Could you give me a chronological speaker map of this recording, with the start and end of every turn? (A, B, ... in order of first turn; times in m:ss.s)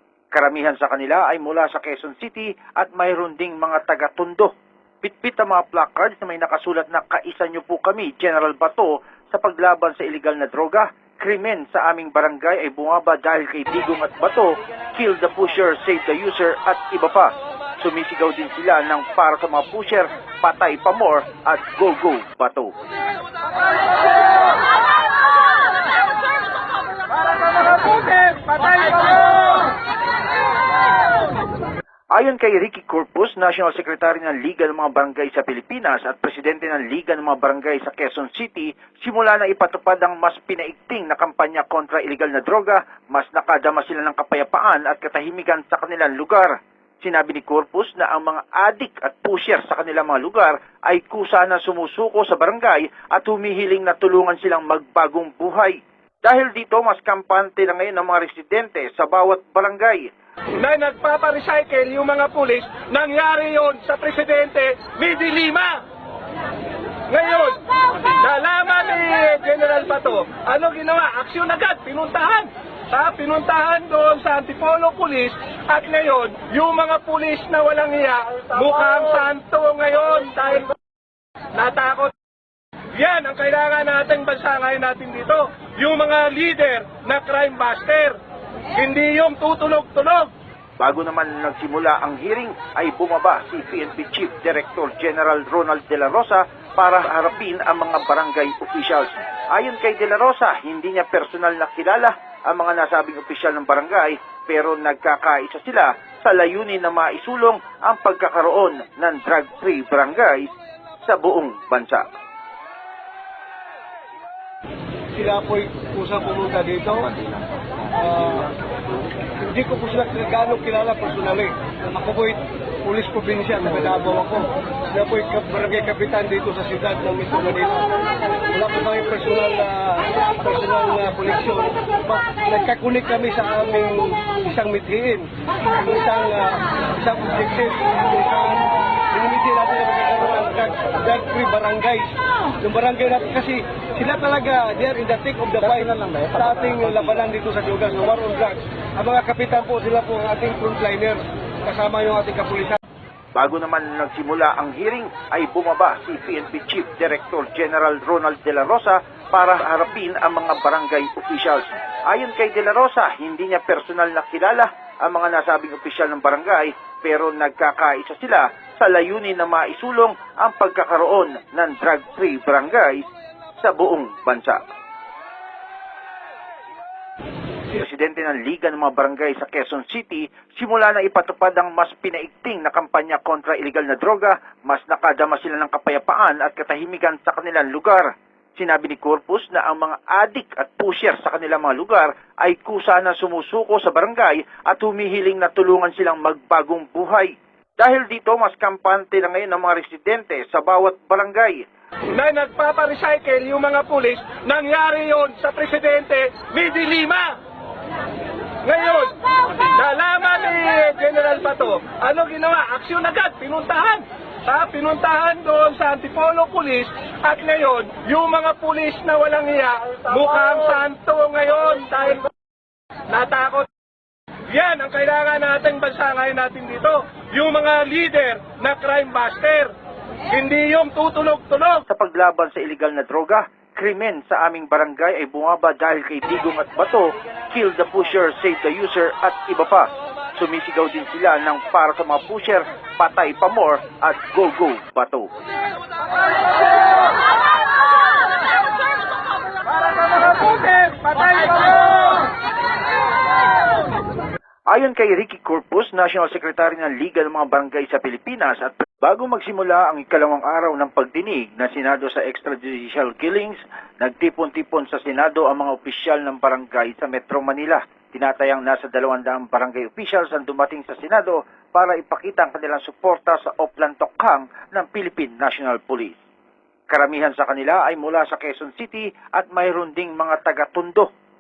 0:00.3-0:04.5 A
0:05.0-0:22.8 A
0:27.8-0:29.6 B
0:32.2-1:00.1 A
1:00.6-1:05.8 B
1:07.1-1:20.7 B
1:21.5-1:22.1 B
1:22.9-1:28.2 B
1:28.8-1:30.3 B
1:30.8-1:50.5 A
1:51.0-1:52.0 A
1:55.1-1:57.1 C
1:57.9-1:58.5 C
1:59.4-2:07.9 C
2:08.5-2:32.8 C
2:33.4-2:53.1 A
2:53.6-2:54.6 A
2:57.7-3:21.6 A
3:22.1-3:27.4 B
3:28.6-3:42.3 B
3:43.1-3:43.7 B
3:44.5-3:49.7 B
3:50.3-3:51.8 B
3:51.9-4:05.3 A
4:10.5-4:11.7 B
4:14.7-4:36.2 A
4:36.9-4:41.1 A